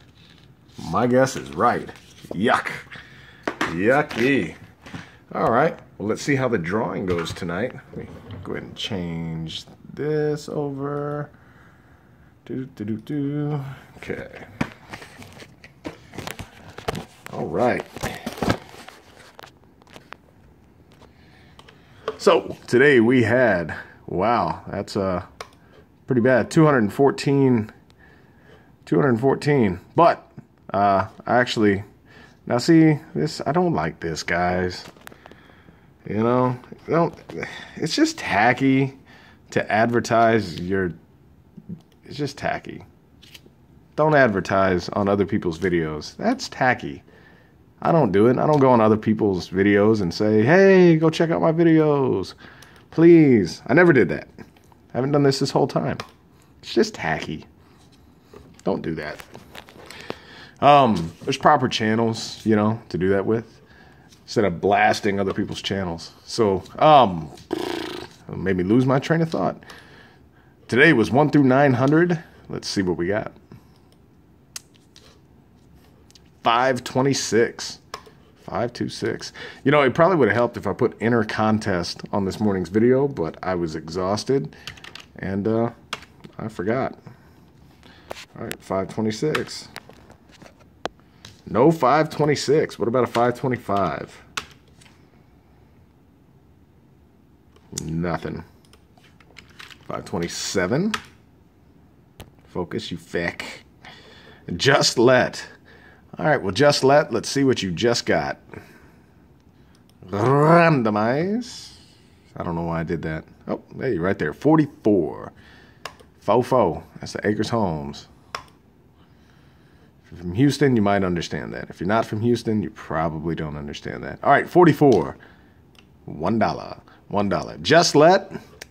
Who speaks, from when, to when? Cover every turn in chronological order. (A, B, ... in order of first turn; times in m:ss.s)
0:00.8-0:02.9 A
0:03.6-0:04.6 A
0:05.3-0:11.3 A
0:12.5-0:14.5 A
0:17.3-0:18.3 A
0:22.2-0:25.3 A
0:26.1-0:27.7 A
0:28.8-0:31.8 A
0:32.5-0:34.9 A
0:36.0-0:39.0 A
0:39.5-0:41.0 A
0:42.1-0:42.9 A
0:44.0-0:47.0 A
0:47.8-0:52.4 A
0:52.9-0:54.3 A
0:54.9-0:56.0 A
0:56.6-0:57.5 A
0:58.6-0:59.2 A
1:00.6-1:03.6 A
1:04.3-1:09.6 A
1:10.7-1:13.4 A
1:16.4-1:17.8 A
1:18.4-1:24.5 A
1:25.2-1:25.7 A
1:26.4-1:27.0 A
1:28.4-1:29.7 A
1:31.5-1:34.2 A
1:37.7-1:38.5 A
1:39.9-1:41.0 A
1:42.5-1:43.7 A
1:44.5-1:45.5 A
1:46.2-1:48.4 A
1:50.0-1:51.8 A
1:52.3-1:55.3 A
1:56.2-1:58.1 A
2:00.1-2:05.2 A
2:06.1-2:08.3 A